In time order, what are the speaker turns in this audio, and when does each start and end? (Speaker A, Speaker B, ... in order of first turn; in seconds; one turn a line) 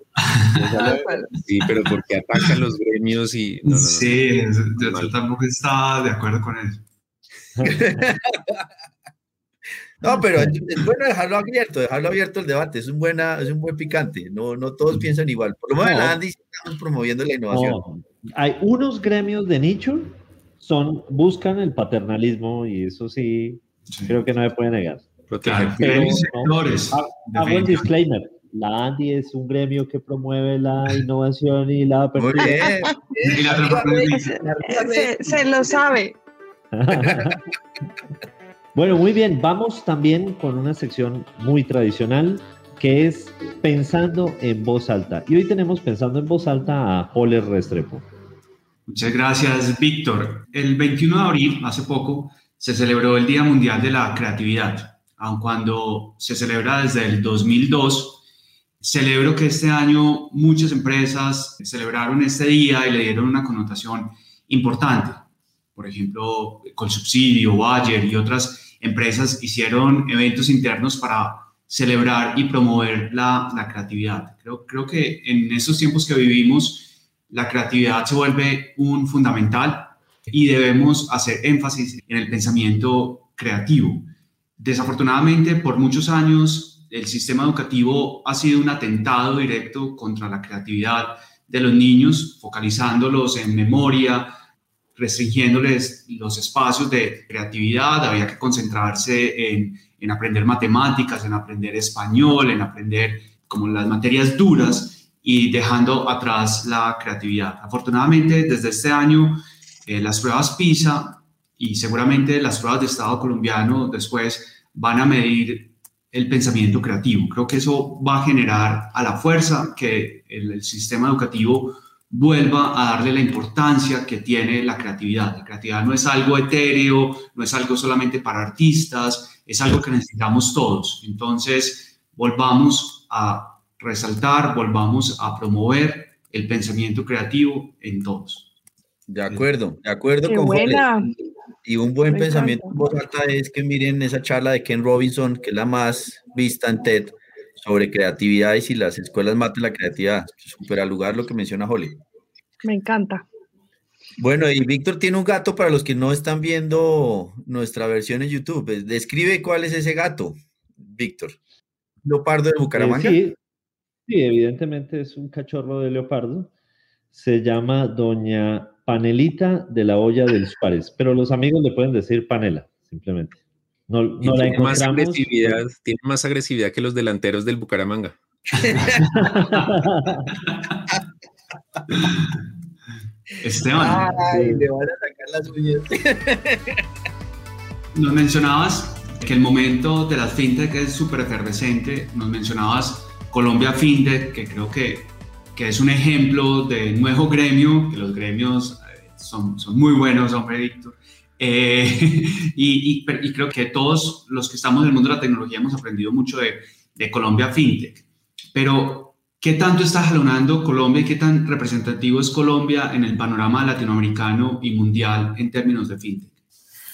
Speaker A: 0.2-0.7
Speaker B: 0.7-5.1
Speaker C: 0.8-1.0
Speaker D: 0.8-1.2
Speaker A: 3.6-6.8
Speaker C: 7.6-8.6
Speaker C: 10.0-17.8
Speaker E: 15.8-16.2
Speaker E: 17.5-25.1
Speaker A: 23.9-24.2
Speaker B: 25.3-26.3
Speaker A: 25.4-27.9
Speaker E: 25.7-32.6
Speaker C: 32.1-36.0
Speaker D: 32.4-32.8
Speaker A: 33.3-34.3
Speaker D: 34.1-36.1
Speaker E: 36.7-37.4
Speaker E: 38.7-48.1
Speaker A: 48.9-58.2
Speaker A: 58.8-94.3
Speaker A: 95.0-138.5
Speaker C: 139.1-140.9
Speaker D: 140.2-141.1
Speaker C: 141.6-152.0
Speaker D: 142.1-142.7
Speaker D: 152.6-153.2
Speaker C: 154.2-161.4
Speaker C: 162.0-163.2
Speaker E: 162.7-163.4
Speaker E: 164.1-166.5
Speaker E: 167.1-175.6
Speaker B: 174.2-178.2
Speaker C: 178.6-179.0
Speaker E: 179.1-180.2
Speaker A: 180.4-180.7
Speaker A: 181.9-182.4
Speaker A: 183.4-184.1
Speaker C: 183.8-186.8
Speaker E: 184.2-184.7
Speaker A: 187.9-216.3